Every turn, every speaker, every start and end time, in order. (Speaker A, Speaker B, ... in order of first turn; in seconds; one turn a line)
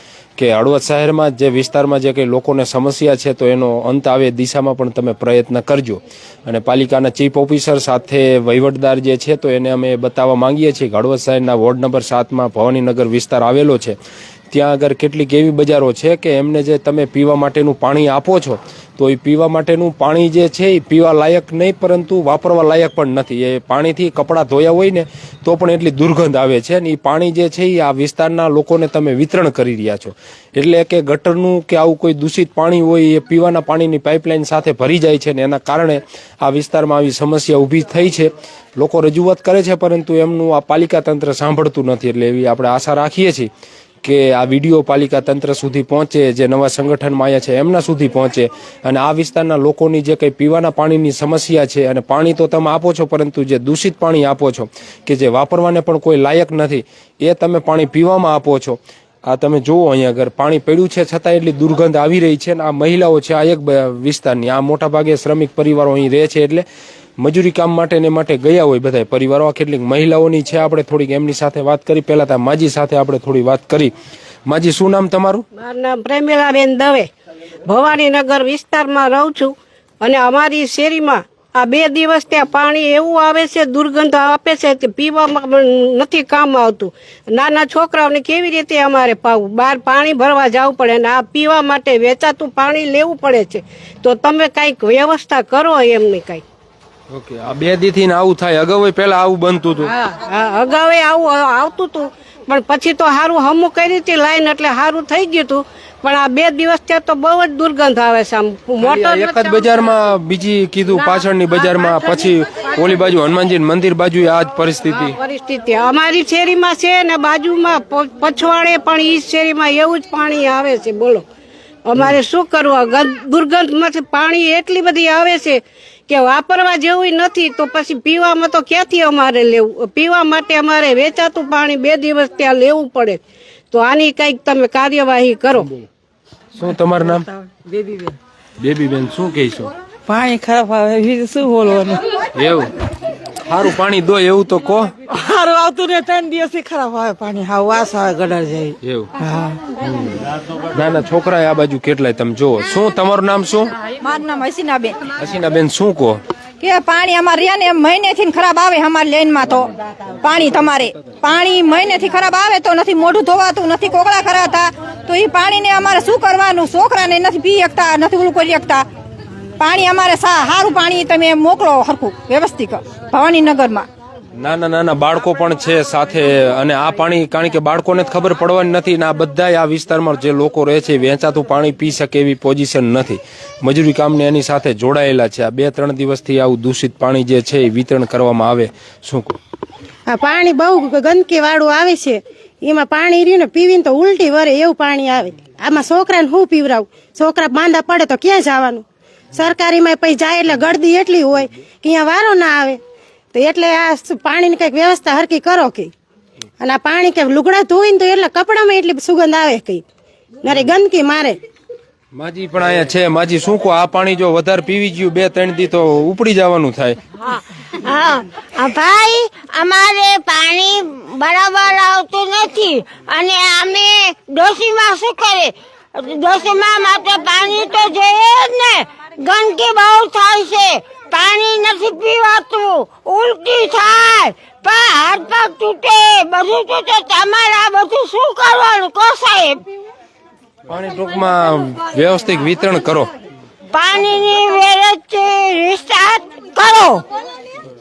Speaker A: 0.4-14.0
Speaker A: 14.5-43.5
Speaker A: 44.0-66.7
Speaker A: 67.2-73.9
Speaker A: 74.5-75.5
Speaker B: 75.6-77.1
Speaker B: 77.7-96.4
Speaker A: 97.1-99.9
Speaker B: 100.1-109.6
Speaker A: 108.8-115.2
Speaker B: 115.2-121.2
Speaker B: 121.9-133.2
Speaker B: 133.7-135.7
Speaker A: 136.6-137.3
Speaker C: 137.7-138.2
Speaker A: 138.6-139.7
Speaker C: 140.1-142.1
Speaker A: 142.3-142.7
Speaker A: 143.4-144.9
Speaker C: 145.1-149.6
Speaker A: 148.8-149.1
Speaker A: 150.7-153.7
Speaker D: 154.0-155.0
Speaker A: 155.2-156.2
Speaker D: 156.6-159.7
Speaker D: 160.2-168.9
Speaker D: 169.6-173.9
Speaker A: 174.4-189.4
Speaker E: 190.1-198.8
Speaker E: 199.3-202.8
Speaker E: 203.3-205.9
Speaker E: 206.6-209.8
Speaker E: 210.4-211.4
Speaker A: 212.1-217.0
Speaker F: 217.3-239.6
Speaker A: 240.7-243.1
Speaker F: 243.7-247.1